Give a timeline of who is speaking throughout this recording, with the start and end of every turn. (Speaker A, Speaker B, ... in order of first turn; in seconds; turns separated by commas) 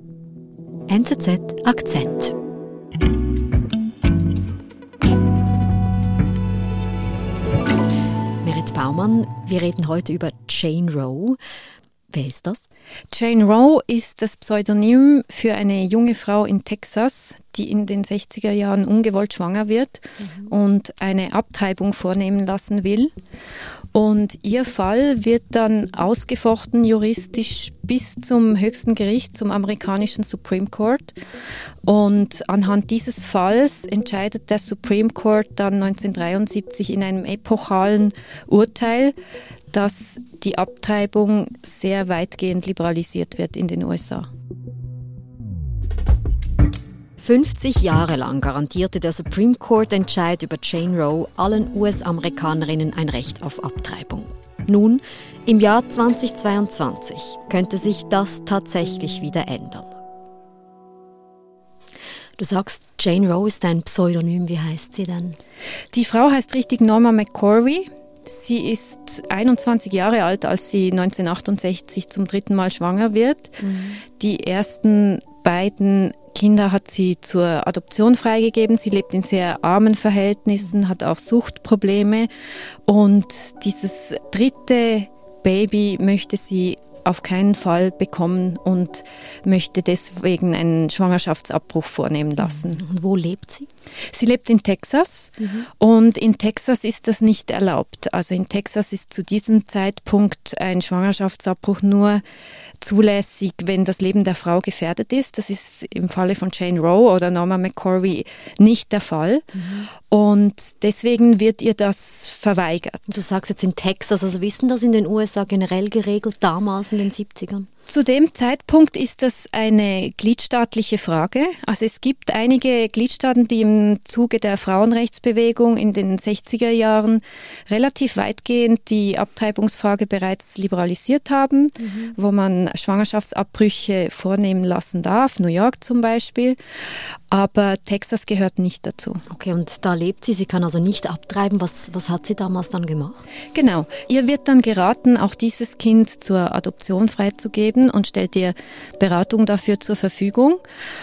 Speaker A: 0.9-2.3, Speaker A: 8.4-11.4, Speaker A: 12.1-12.7, Speaker B: 13.1-23.1, Speaker A: 20.2-20.5, Speaker B: 23.9-31.1, Speaker B: 31.8-39.1, Speaker B: 39.7-44.3, Speaker A: 47.2-60.0, Speaker A: 62.4-65.4, Speaker B: 65.9-73.6, Speaker A: 73.6-74.0, Speaker B: 74.2-82.3, Speaker B: 82.9-92.8, Speaker A: 92.4-93.7, Speaker B: 94.1-102.2, Speaker A: 95.4-95.7, Speaker B: 102.8-109.5, Speaker A: 109.5-109.9, Speaker B: 110.0-113.2, Speaker A: 113.1-117.7, Speaker B: 117.9-136.6, Speaker A: 131.8-132.1, Speaker B: 137.3-139.2, Speaker A: 139.3-143.2, Speaker B: 143.5-150.6